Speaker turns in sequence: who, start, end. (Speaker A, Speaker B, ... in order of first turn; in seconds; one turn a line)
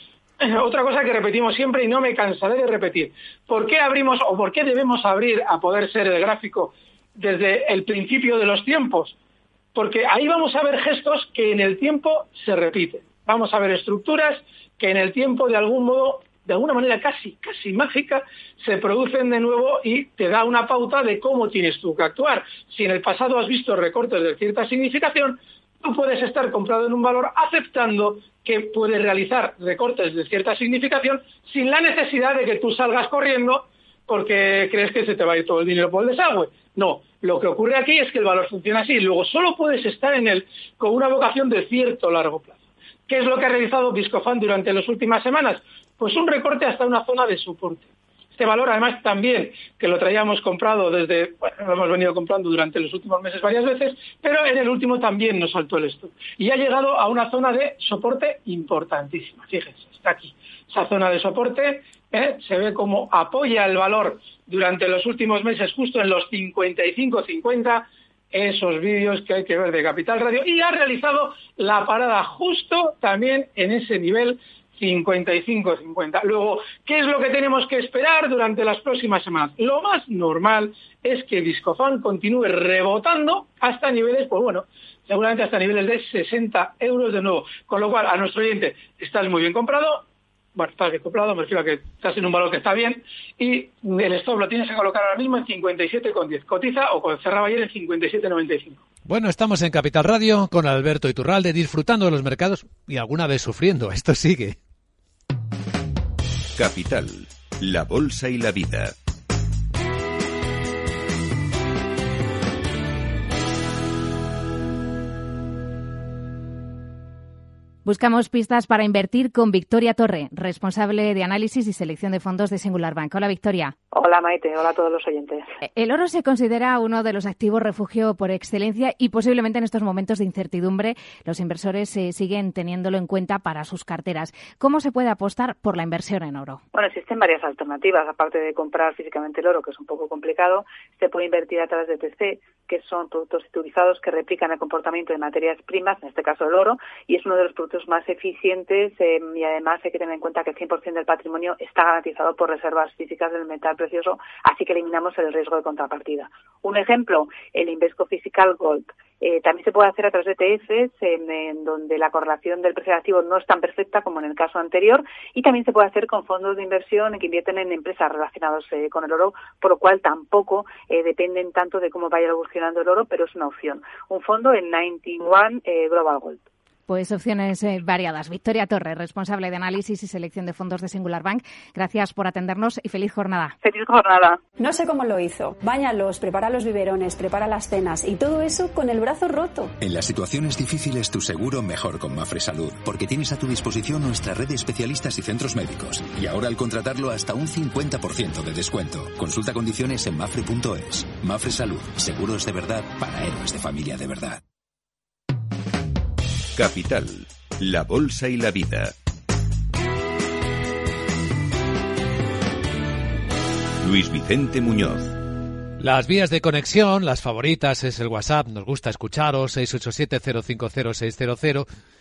Speaker A: 0.4-9.2
Speaker A: 9.7-42.6
Speaker A: 43.1-90.0
Speaker A: 90.5-98.8
Speaker B: 99.0-104.6
Speaker C: 106.5-108.9
Speaker D: 117.8-123.7
Speaker E: 123.9-125.5
Speaker D: 125.7-136.6
Speaker E: 136.7-176.4
Speaker D: 176.9-183.5
Speaker E: 183.6-184.4
Speaker F: 184.6-189.7
Speaker G: 189.8-204.4
Speaker C: 206.5-208.9
Speaker C: 213.8-215.2
Speaker B: 215.8-221.7